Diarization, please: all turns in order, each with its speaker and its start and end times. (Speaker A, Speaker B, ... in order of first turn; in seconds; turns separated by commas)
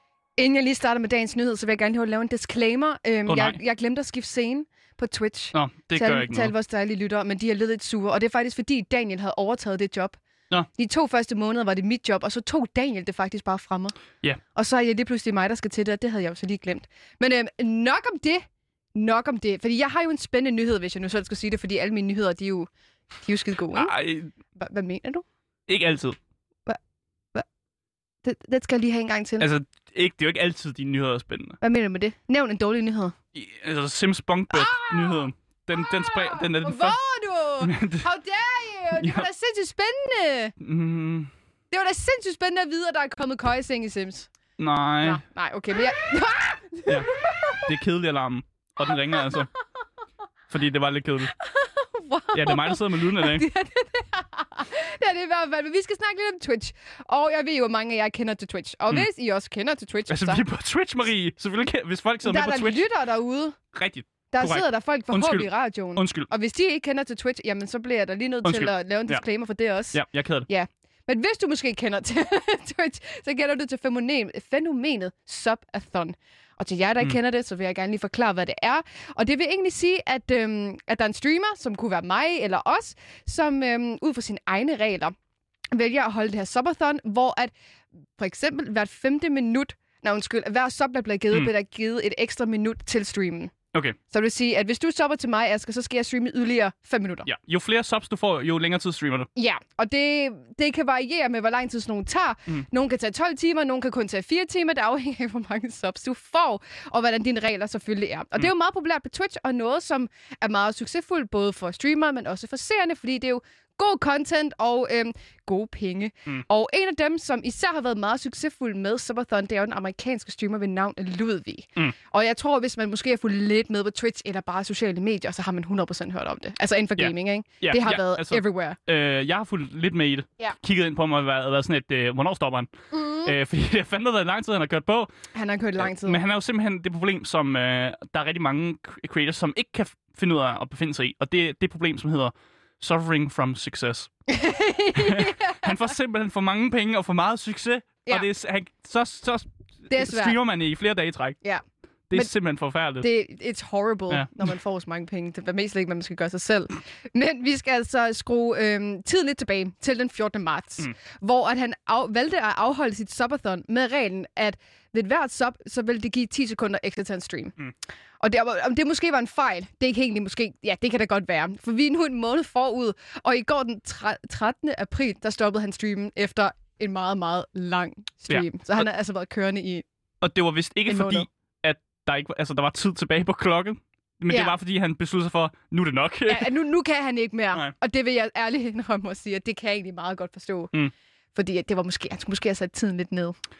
Speaker A: 0.4-10.2, Speaker B: 3.3-3.6, Speaker B: 5.5-6.5, Speaker A: 10.7-14.0, Speaker A: 14.5-18.4, Speaker A: 18.9-22.7, Speaker A: 23.2-24.0, Speaker B: 23.7-24.3, Speaker A: 24.6-25.2, Speaker B: 25.7-26.2, Speaker A: 28.2-29.5, Speaker B: 29.4-31.6, Speaker A: 31.6-33.1, Speaker B: 33.3-37.0, Speaker A: 34.5-40.5, Speaker B: 37.6-38.0, Speaker B: 38.9-39.3, Speaker B: 40.6-41.3, Speaker A: 41.7-44.3, Speaker B: 44.6-45.2, Speaker A: 45.0-47.7, Speaker B: 46.9-49.5, Speaker A: 48.9-49.4, Speaker B: 50.5-51.3, Speaker A: 51.4-60.4, Speaker B: 52.3-53.5, Speaker B: 60.1-62.9, Speaker A: 62.2-63.6, Speaker B: 63.7-66.3, Speaker A: 64.3-85.1, Speaker B: 68.4-69.2, Speaker B: 69.9-70.5, Speaker A: 85.7-87.5, Speaker A: 88.2-93.5, Speaker A: 94.1-97.3, Speaker B: 97.2-99.3, Speaker A: 99.3-128.8, Speaker B: 127.0-132.7, Speaker A: 132.9-133.3, Speaker B: 133.2-135.1, Speaker A: 135.3-136.2, Speaker B: 135.8-144.1, Speaker A: 144.3-145.8, Speaker B: 144.9-151.4, Speaker A: 149.9-150.4, Speaker B: 152.1-153.1, Speaker A: 153.0-167.6, Speaker B: 154.1-154.5, Speaker A: 168.2-179.8, Speaker B: 178.3-178.8, Speaker B: 180.2-186.5, Speaker A: 180.9-181.3, Speaker A: 184.3-184.5, Speaker A: 186.2-190.7, Speaker A: 191.3-193.3